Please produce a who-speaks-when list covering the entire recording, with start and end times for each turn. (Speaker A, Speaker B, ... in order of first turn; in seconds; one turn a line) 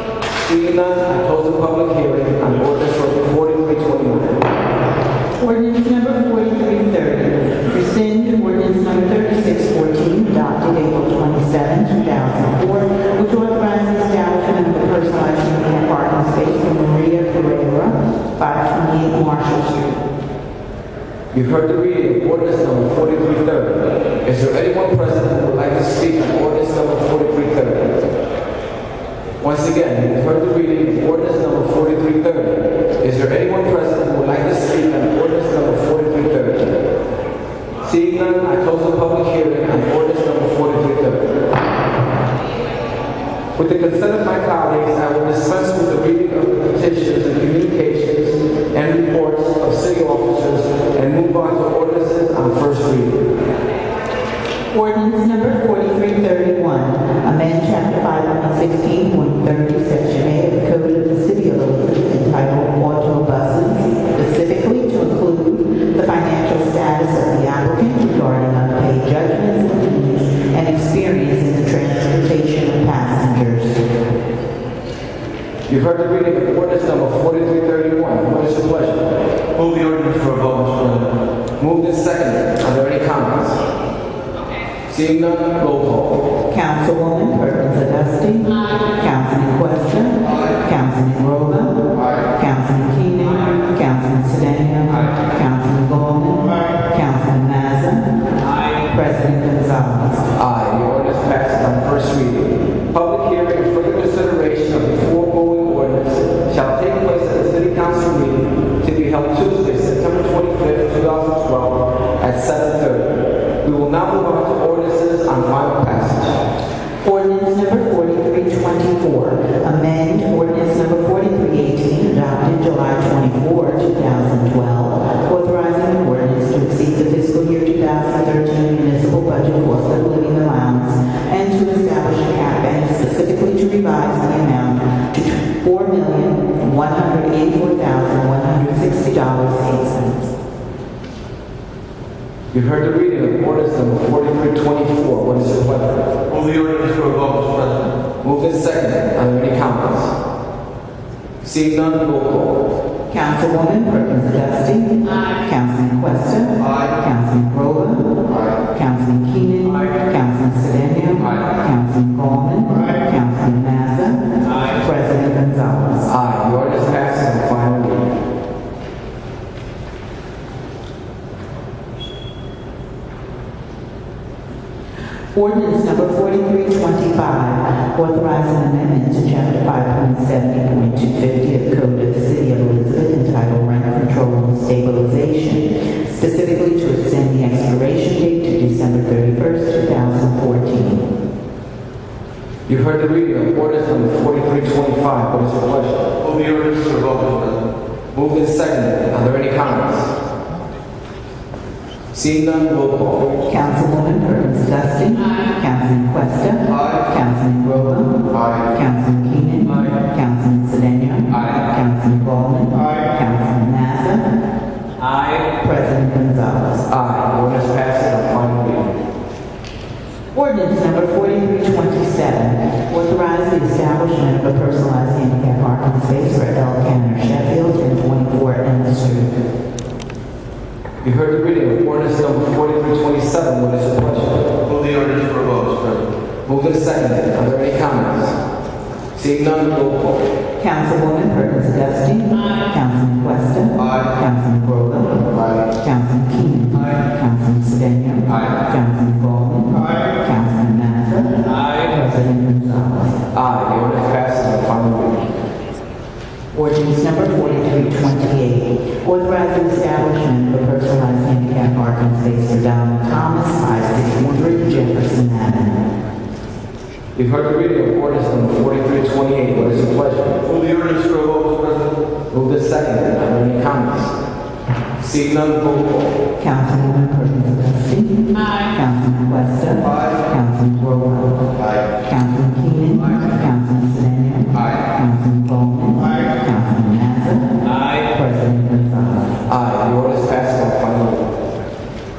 Speaker A: 0.4-4.4
Speaker B: 5.4-20.0
Speaker A: 21.3-28.0
Speaker A: 29.4-36.8
Speaker A: 37.8-41.3
Speaker A: 43.6-53.2
Speaker B: 54.7-73.8
Speaker A: 75.7-79.1
Speaker C: 79.5-81.1
Speaker A: 81.6-83.6
Speaker A: 84.9-86.3
Speaker B: 86.5-98.2
Speaker B: 98.7-100.2
Speaker A: 100.3-116.3
Speaker B: 117.0-140.3
Speaker A: 142.5-146.0
Speaker C: 146.3-147.9
Speaker A: 148.2-150.2
Speaker A: 151.4-152.7
Speaker B: 153.1-166.1
Speaker A: 166.1-168.1
Speaker B: 175.3-191.1
Speaker A: 192.7-196.1
Speaker C: 196.2-197.6
Speaker A: 198.1-200.1
Speaker A: 202.1-203.3
Speaker B: 203.5-214.2
Speaker A: 211.3-211.7
Speaker B: 215.4-216.8
Speaker A: 216.9-218.9
Speaker B: 220.3-229.3
Speaker A: 231.0-234.4
Speaker C: 234.7-236.1
Speaker A: 236.4-238.4
Speaker A: 239.1-240.2
Speaker B: 240.6-253.2
Speaker A: 253.3-255.3
Speaker B: 256.5-265.8
Speaker A: 267.1-270.4
Speaker C: 270.4-271.9
Speaker A: 272.3-274.1
Speaker A: 275.0-276.1
Speaker B: 276.4-281.4
Speaker B: 282.0-289.3
Speaker A: 289.5-291.3